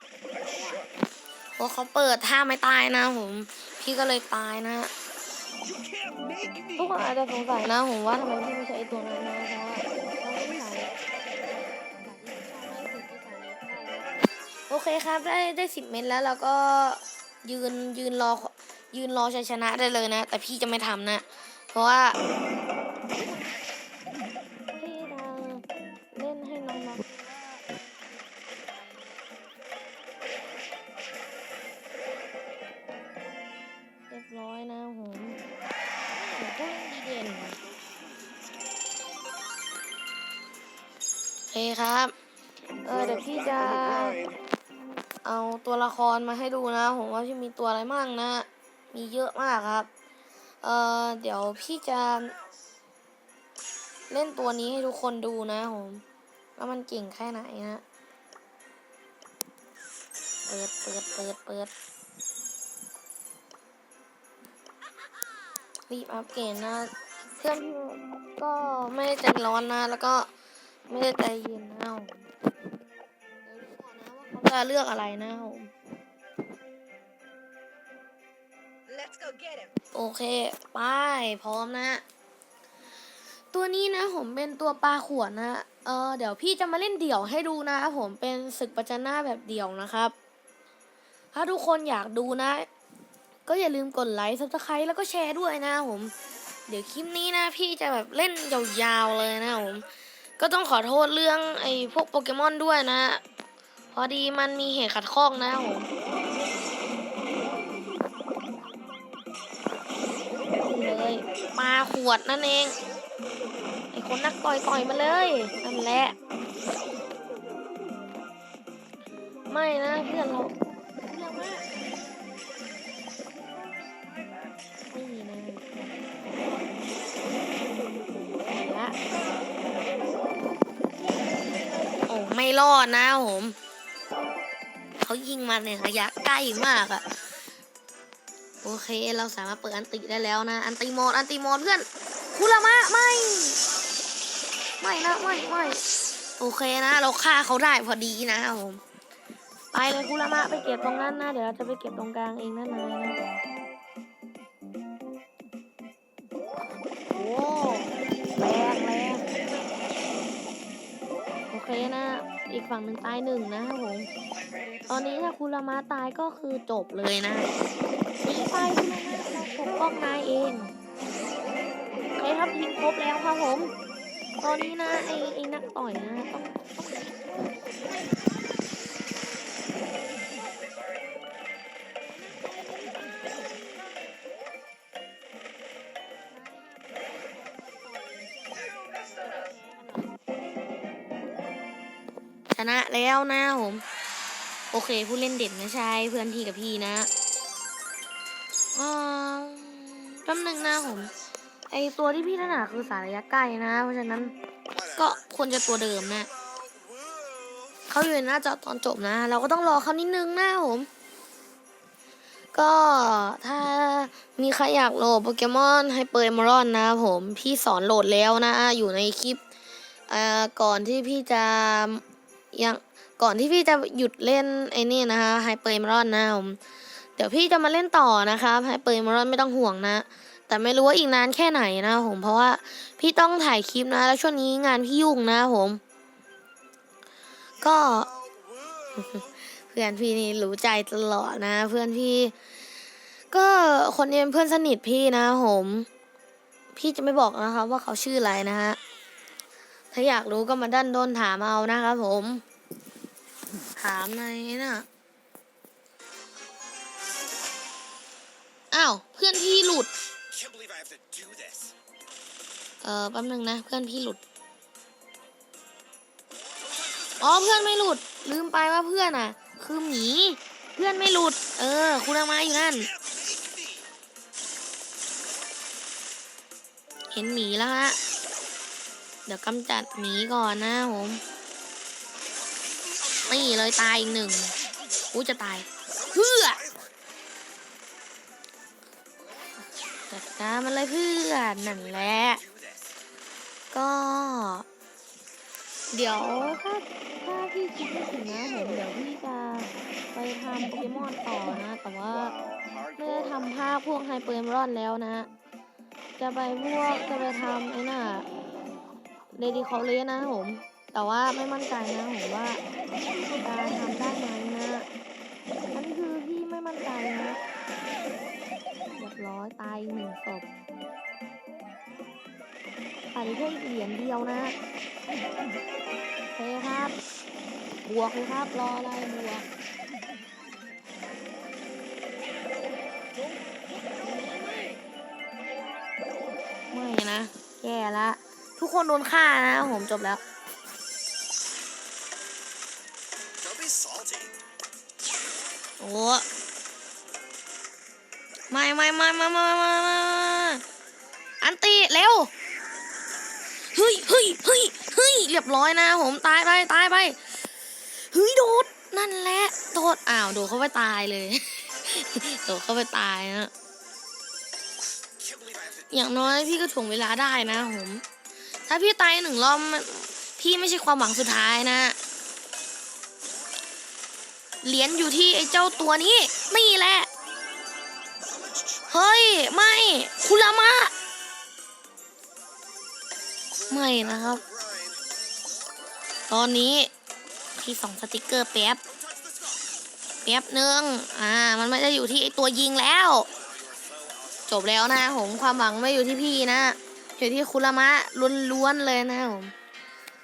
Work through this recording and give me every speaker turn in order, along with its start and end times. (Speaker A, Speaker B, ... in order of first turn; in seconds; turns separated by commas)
Speaker A: 0.3-0.9, Speaker B: 1.6-4.9, Speaker A: 5.6-7.0, Speaker B: 6.8-14.2, Speaker B: 14.7-22.2, Speaker B: 24.8-29.3, Speaker B: 34.1-35.4, Speaker B: 36.1-37.6, Speaker A: 37.5-38.8, Speaker B: 41.5-42.1, Speaker B: 42.8-44.2, Speaker A: 42.9-44.4, Speaker B: 45.2-49.9, Speaker B: 50.6-52.3, Speaker B: 54.1-56.0, Speaker B: 56.6-57.8, Speaker B: 60.5-61.7, Speaker B: 65.9-70.3, Speaker B: 70.9-72.3, Speaker B: 73.4-75.7, Speaker A: 78.9-79.7, Speaker B: 79.9-82.0, Speaker B: 83.5-90.1, Speaker B: 91.3-92.7, Speaker B: 93.5-96.1, Speaker B: 96.7-99.8, Speaker B: 100.4-103.2, Speaker B: 103.9-105.9, Speaker B: 110.5-112.8, Speaker B: 113.9-116.2, Speaker B: 119.5-121.7, Speaker B: 124.9-126.1, Speaker B: 128.5-129.0, Speaker B: 131.0-133.6, Speaker B: 135.0-137.1, Speaker B: 138.6-143.6, Speaker B: 144.8-145.8, Speaker B: 146.4-148.8, Speaker B: 149.7-153.2, Speaker B: 157.1-159.3, Speaker A: 159.3-159.9, Speaker B: 161.5-164.1, Speaker A: 164.3-165.3, Speaker B: 164.9-167.5, Speaker B: 168.2-170.7, Speaker B: 172.2-173.7, Speaker B: 174.4-178.4, Speaker B: 182.0-183.9, Speaker B: 186.3-190.2, Speaker A: 188.5-189.4, Speaker B: 192.5-193.8, Speaker B: 194.7-197.1, Speaker B: 198.7-201.1, Speaker B: 201.7-204.3, Speaker A: 204.7-207.8, Speaker B: 205.0-206.3, Speaker B: 207.9-210.9, Speaker B: 212.5-219.4, Speaker B: 220.1-226.6, Speaker B: 227.2-235.8, Speaker A: 237.6-239.3, Speaker B: 237.6-238.1, Speaker B: 239.7-242.3, Speaker B: 243.3-245.9, Speaker B: 246.7-248.8, Speaker B: 249.9-252.4, Speaker B: 253.8-254.8, Speaker B: 258.7-259.9, Speaker A: 260.3-261.8, Speaker B: 262.8-264.2, Speaker A: 266.4-267.6, Speaker B: 267.2-272.9, Speaker A: 272.7-273.9, Speaker B: 277.1-278.0, Speaker B: 279.3-281.2, Speaker A: 282.4-283.8, Speaker B: 283.3-284.6, Speaker B: 285.1-286.6, Speaker A: 285.9-287.0, Speaker B: 290.1-292.4, Speaker A: 291.7-293.0, Speaker B: 293.7-294.6, Speaker B: 295.9-302.3, Speaker A: 302.1-303.6, Speaker B: 303.0-305.3, Speaker B: 306.2-308.3, Speaker B: 309.3-314.9, Speaker B: 315.7-317.4, Speaker B: 318.9-320.5, Speaker B: 323.1-324.6, Speaker B: 326.2-326.9, Speaker B: 327.8-329.4, Speaker B: 330.5-331.3, Speaker B: 334.0-334.8, Speaker B: 336.7-340.2, Speaker A: 343.4-344.3, Speaker B: 345.8-346.2, Speaker B: 348.5-350.6, Speaker B: 351.4-352.3, Speaker B: 353.7-363.5, Speaker A: 365.2-366.1, Speaker B: 365.9-368.0, Speaker B: 368.7-372.0, Speaker B: 374.6-377.1, Speaker A: 378.2-379.2, Speaker B: 378.9-380.9, Speaker A: 383.5-385.1, Speaker B: 383.7-384.4, Speaker B: 386.3-386.9, Speaker B: 387.6-388.8, Speaker A: 388.9-389.7, Speaker B: 390.2-393.3, Speaker A: 393.3-394.5, Speaker B: 394.5-399.5